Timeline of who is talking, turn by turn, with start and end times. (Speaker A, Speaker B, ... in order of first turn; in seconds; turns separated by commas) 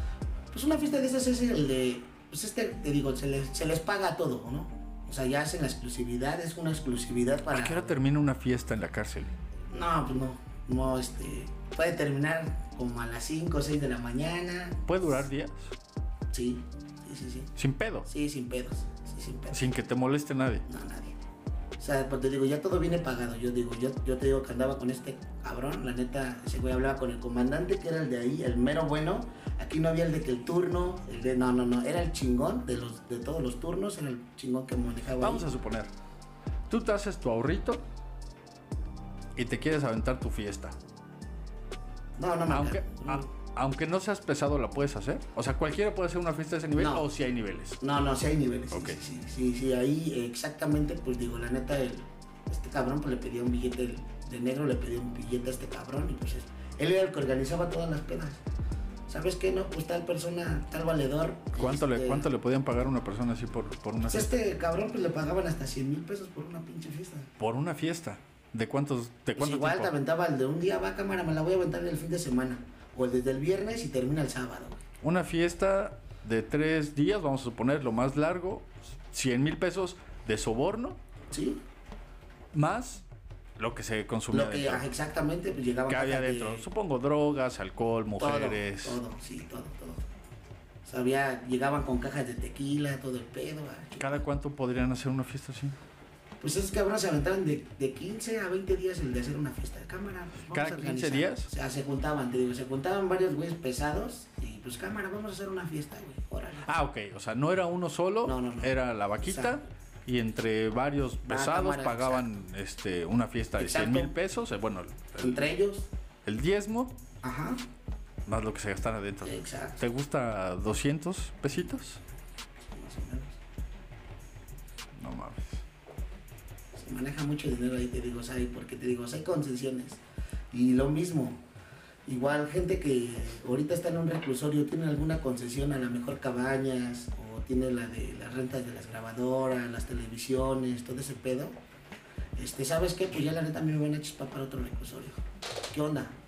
Speaker A: 0.5-8.0, Speaker B: 7.5-9.3, Speaker A: 9.7-15.2, Speaker B: 14.9-15.7, Speaker A: 16.3-17.5, Speaker B: 17.6-18.1, Speaker A: 18.0-19.7, Speaker B: 19.5-20.6, Speaker A: 20.6-21.2, Speaker A: 21.8-35.5, Speaker B: 35.2-35.9, Speaker B: 36.7-37.8, Speaker B: 39.4-40.7, Speaker A: 42.2-43.3, Speaker B: 42.5-47.8, Speaker A: 46.8-47.0, Speaker A: 47.8-58.4, Speaker B: 48.7-49.0, Speaker A: 59.1-62.3, Speaker B: 61.5-64.3, Speaker A: 64.0-67.3, Speaker B: 67.4-69.9, Speaker A: 69.4-74.8, Speaker B: 75.0-81.0, Speaker A: 81.3-81.6, Speaker B: 82.5-83.0, Speaker B: 83.6-84.8, Speaker A: 84.3-86.7, Speaker B: 85.9-89.0, Speaker A: 88.2-90.0, Speaker A: 90.8-94.2, Speaker B: 94.0-95.8, Speaker A: 96.4-106.7, Speaker B: 100.5-101.5, Speaker B: 106.7-115.5, Speaker A: 108.2-109.6, Speaker A: 111.2-112.3, Speaker A: 113.6-114.1, Speaker A: 115.2-115.9, Speaker B: 116.2-116.9, Speaker A: 117.2-117.6, Speaker B: 118.3-122.0, Speaker A: 119.2-119.8, Speaker A: 122.7-123.4, Speaker B: 125.0-125.6, Speaker A: 126.7-130.0, Speaker A: 130.5-131.4, Speaker A: 132.1-141.5, Speaker A: 142.4-145.2, Speaker A: 145.7-146.1